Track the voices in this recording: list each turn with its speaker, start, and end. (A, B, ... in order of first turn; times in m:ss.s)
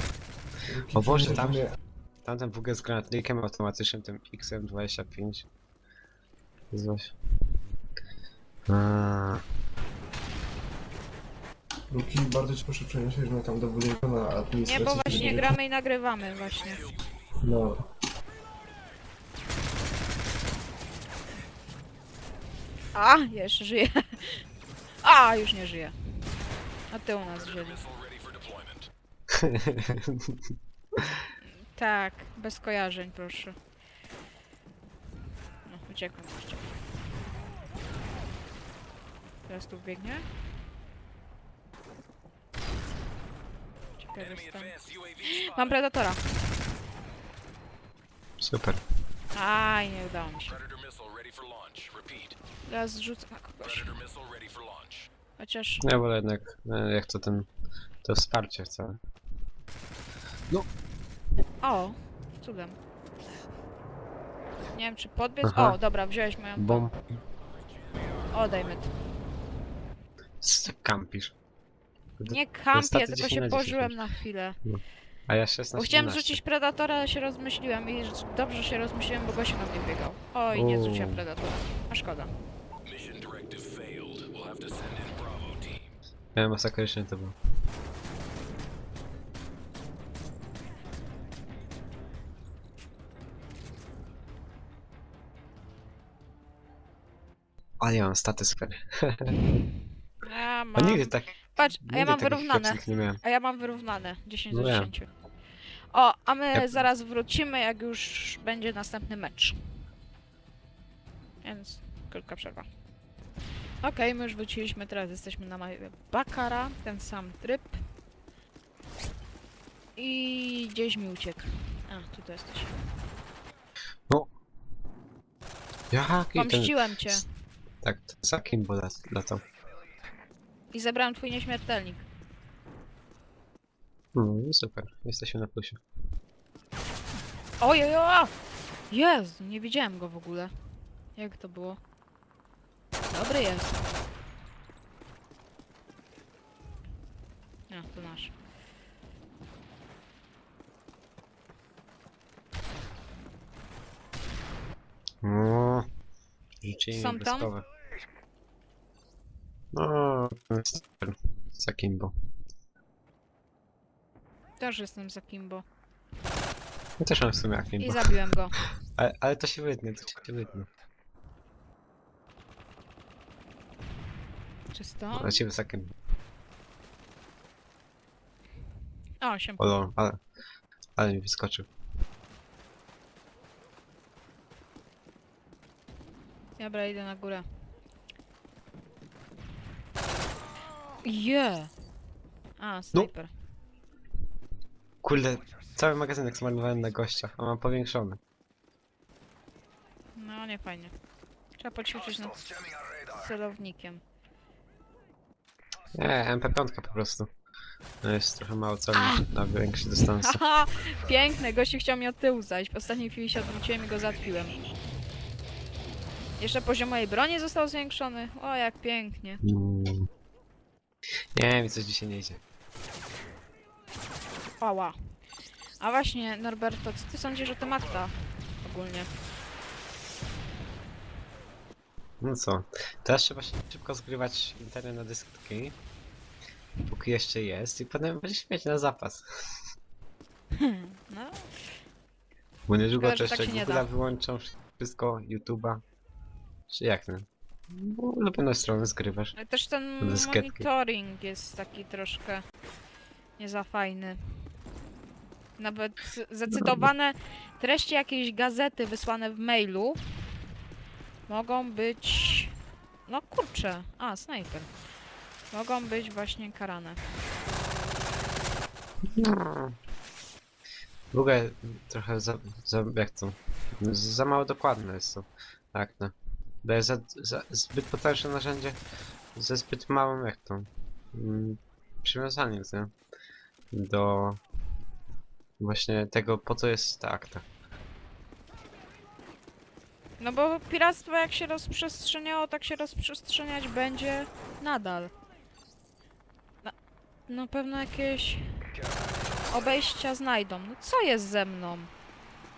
0:00.6-0:01.7 A
0:00.9-0:01.7 B
0:02.2-0:05.4 B
0:06.7-0:07.1 B
0:08.7-0:09.4 B
0:11.9-0:15.5 A
0:14.6-0:16.8 C
0:17.4-0:17.8 A
0:22.9-0:24.4 C
0:25.0-0:26.0 C
0:26.9-0:27.8 C
0:27.8-0:28.9 D
0:29.3-0:31.2 B
0:31.4-0:33.6 C
0:35.6-0:36.8 C
0:39.5-0:40.3 C
0:44.0-0:46.6 C
0:48.4-0:48.8 B
0:49.3-0:50.6 C
0:50.6-0:52.4 D
0:52.6-0:53.9 C
0:53.9-0:55.1 D
0:55.4-0:55.8 C
0:55.8-0:57.5 B
0:58.0-0:59.0 B
1:01.6-1:02.8 C
1:04.7-1:06.9 C
1:05.4-1:05.8 B
1:06.6-1:07.0 B
1:08.3-1:08.9 C
1:10.4-1:11.3 B
1:12.2-1:14.0 B
1:12.3-1:14.6 C
1:14.6-1:16.4 B
1:15.7-1:22.3 C
1:20.5-1:21.2 B
1:22.8-1:25.9 D
1:26.3-1:27.4 B
1:37.8-1:39.6 B
1:40.2-1:45.1 C
1:40.8-1:43.2 B
1:44.5-1:44.9 B
1:45.9-1:49.6 C
1:46.5-1:46.8 B
1:51.4-1:52.7 C
1:53.8-1:57.8 C
2:00.0-2:02.8 C
2:05.9-2:07.2 B
2:06.3-2:07.2 C
2:07.8-2:09.4 B
2:10.7-2:12.0 C
2:14.1-2:15.8 B
2:17.6-2:18.3 C
2:18.9-2:20.5 C
2:21.1-2:21.8 C
2:23.1-2:23.9 C
2:27.7-2:28.3 C
2:35.2-2:35.9 B
2:36.6-2:37.6 B
2:36.9-2:37.5 C
2:39.7-2:42.1 B
2:44.6-2:45.6 C
2:47.0-2:50.7 B
2:47.8-2:48.6 C
2:54.7-2:55.4 C
2:55.1-2:55.9 B
2:59.2-2:59.7 C
2:59.6-3:00.2 B
3:01.0-3:01.7 B
3:06.6-3:07.4 C
3:11.0-3:11.7 C
3:12.6-3:13.3 C
3:15.0-3:18.2 B
3:20.1-3:20.9 C
3:21.6-3:24.0 C
3:25.9-3:27.3 B
3:28.0-3:30.4 B
3:28.9-3:29.3 C
3:30.2-3:34.6 C
3:36.4-3:39.4 C
3:39.4-3:40.1 B
3:41.3-3:42.4 B
3:44.6-3:45.0 C
3:45.8-3:49.1 C
3:52.2-3:55.8 B
3:56.9-3:59.5 B
4:00.5-4:01.7 C
4:02.7-4:05.8 B
4:03.0-4:03.8 C
4:06.7-4:09.3 B
4:09.4-4:12.4 C
4:10.0-4:10.7 B
4:13.4-4:14.5 C
4:15.6-4:20.1 C
4:21.3-4:24.7 C
4:25.5-4:27.0 C
4:29.1-4:29.8 B
4:31.1-4:38.8 B
4:39.3-4:42.9 B
4:43.7-4:44.4 B
4:45.6-4:47.4 B
4:50.2-4:55.1 C
4:57.3-4:58.7 C
4:59.5-5:01.9 C